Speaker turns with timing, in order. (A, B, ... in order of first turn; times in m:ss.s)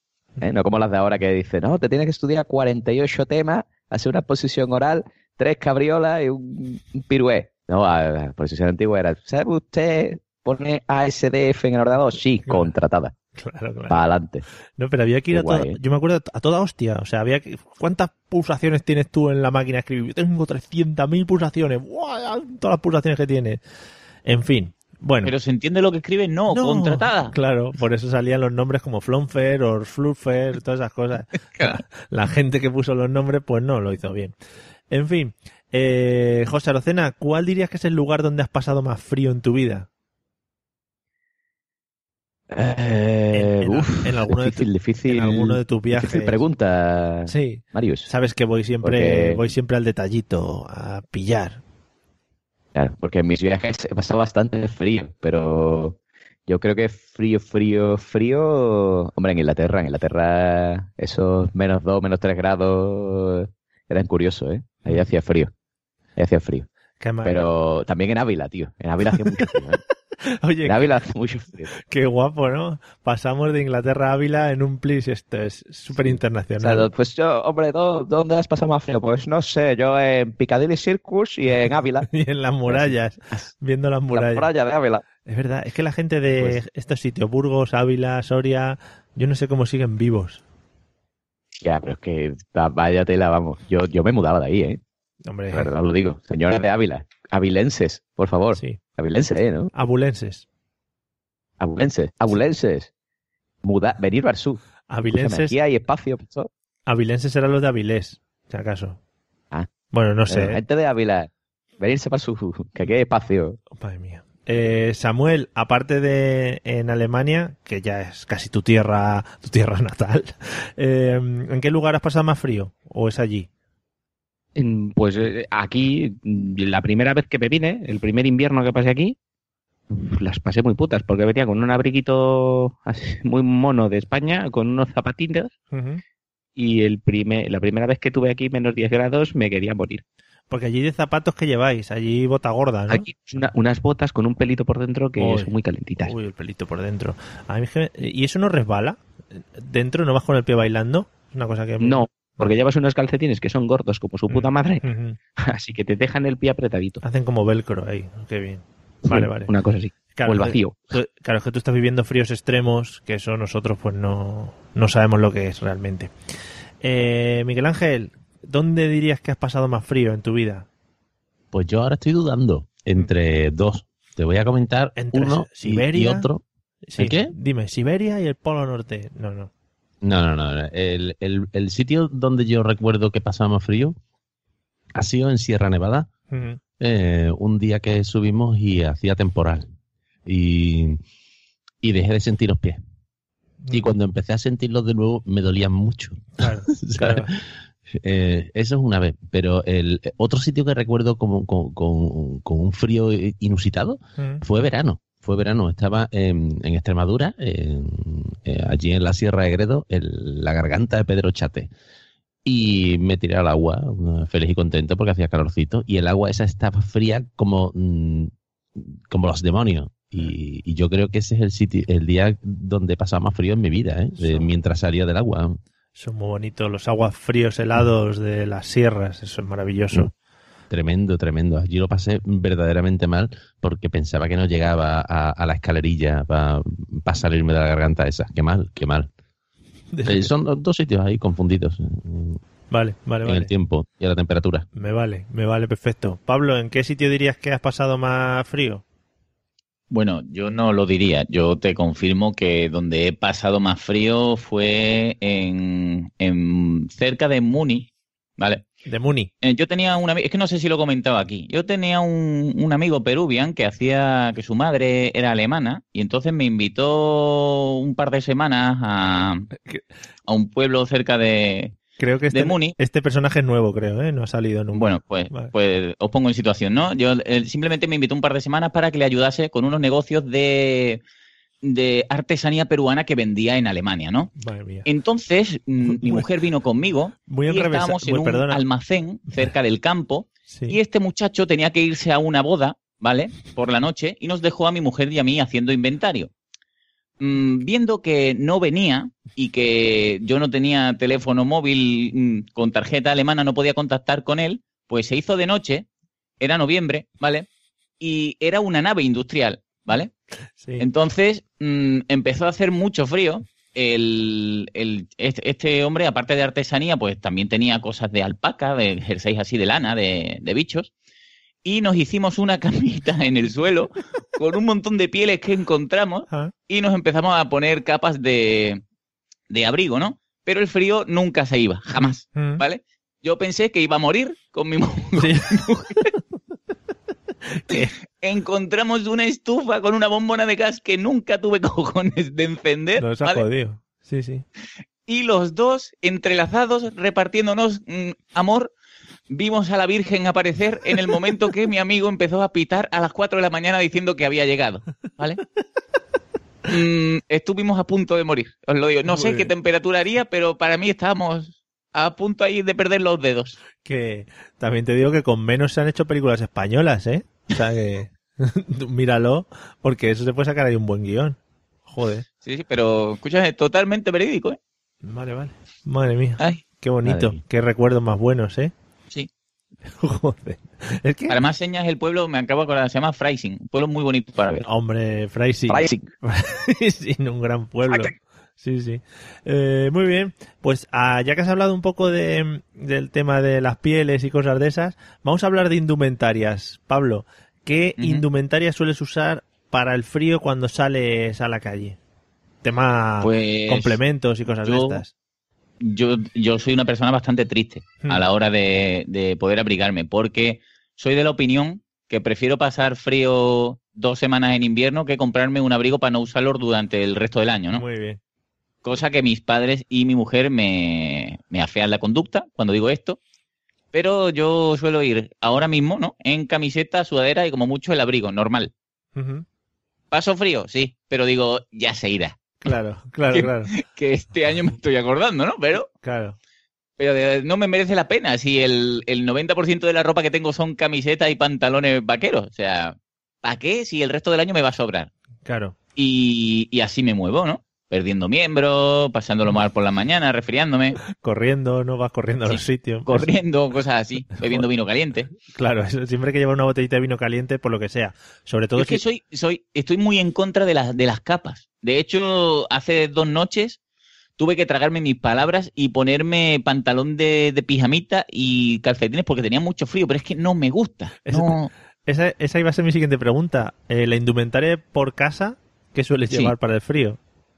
0:00.4-0:13.1 A
0:12.4-0:12.7 B
0:13.4-0:14.0 B
0:13.9-0:14.4 A
0:14.8-0:23.6 B
0:15.3-0:15.8 A
0:24.3-0:25.3 B
0:25.2-0:27.4 C
0:26.5-0:34.3 B
0:34.9-0:39.9 B
0:42.5-0:48.1 A
0:43.3-0:46.4 B
0:47.3-0:51.6 B
0:48.8-0:49.5 A
0:52.7-1:05.5 A
1:06.2-1:06.7 A
1:07.0-1:07.4 B
1:07.2-1:09.8 A
1:09.1-1:09.6 B
1:10.2-1:10.9 B
1:10.6-1:11.7 A
1:11.8-1:16.9 B
1:16.6-1:22.1 A
1:22.1-1:24.5 B
1:22.7-1:23.5 A
1:24.1-1:25.0 A
1:25.2-1:30.4 B
1:31.6-1:34.8 A
1:35.2-1:35.7 B
1:35.5-1:39.7 A
1:39.7-1:40.4 B
1:41.6-1:42.9 A
1:43.6-1:46.5 A
1:44.9-1:45.6 B
1:46.9-1:49.0 B
1:49.9-1:50.6 B
1:50.3-1:53.6 A
1:53.8-2:03.5 B
2:04.6-2:09.2 D
2:09.9-2:15.5 D
2:15.7-2:16.0 B
2:16.6-2:20.0 D
2:20.5-2:23.1 B
2:22.9-2:26.1 D
2:25.2-2:32.5 B
2:31.8-2:34.8 D
2:34.3-2:35.2 B
2:35.4-2:37.0 D
2:37.0-2:39.5 B
2:39.0-2:40.9 D
2:40.2-2:46.1 B
2:46.8-2:50.7 B
2:51.5-2:56.4 E
2:55.0-2:56.3 B
2:56.9-2:59.5 B
2:57.0-2:57.3 E
3:00.0-3:04.0 E
3:05.0-3:06.1 E
3:06.3-3:06.6 B
3:06.8-3:09.6 E
3:10.3-3:11.0 E
3:11.8-3:12.8 E
3:13.7-3:17.4 E
3:16.4-3:17.3 B
3:18.0-3:31.7 E
3:24.2-3:24.4 B
3:32.4-3:45.6 E
3:44.2-3:44.5 B
3:46.0-3:50.1 B
3:50.7-3:59.1 E
3:59.9-4:00.3 B
4:00.1-4:02.4 E
4:02.7-4:03.5 B
4:03.2-4:04.7 E
4:04.8-4:08.8 B
4:09.9-4:17.9 C
4:18.4-4:18.6 C
4:18.9-4:19.3 B
4:19.4-4:29.5 C
4:30.3-4:31.8 C
4:32.0-4:35.5 B
4:32.3-4:32.8 C
4:34.7-4:41.0 C
4:41.6-4:44.3 C
4:44.4-4:44.9 B
4:44.8-4:56.3 C
4:45.8-4:46.3 B
4:47.3-4:48.6 B
4:50.5-4:50.8 B
4:57.2-5:05.9 C
5:06.4-5:07.5 C
5:08.0-5:10.1 C
5:10.6-5:10.9 B
5:10.8-5:20.9 C
5:21.6-5:28.8 C
5:29.5-5:36.1 C
5:32.0-5:32.6 B
5:35.2-5:36.2 B
5:37.5-5:37.9 B
5:37.7-5:43.4 C
5:43.0-5:44.4 B
5:45.1-5:48.7 C
5:49.3-5:55.4 C
5:56.7-6:03.6 C
5:59.1-5:59.5 B
6:03.8-6:12.2 B
6:12.4-6:14.6 C
6:15.0-6:18.7 B
6:17.0-6:17.4 A
6:19.9-6:21.4 B
6:21.3-6:24.6 C
6:24.6-6:42.0 B
6:25.7-6:26.1 A
6:38.0-6:38.2 C
6:42.6-6:45.1 B
6:43.2-6:44.0 C
6:44.6-6:45.0 C
6:45.8-6:57.8 C
6:57.7-6:58.2 B
6:58.8-7:03.2 C
7:03.9-7:08.7 C
7:09.2-7:09.4 B
7:10.1-7:12.4 C
7:12.6-7:13.7 B
7:13.3-7:15.9 C
7:16.0-7:16.4 B
7:17.0-7:25.1 C
7:25.5-7:25.8 B
7:26.0-7:31.0 C
7:31.1-7:33.3 B
7:32.5-7:35.3 C
7:34.4-7:34.6 B
7:35.5-7:39.0 B
7:38.8-7:43.8 C
7:44.4-7:51.7 C
7:51.3-7:57.2 B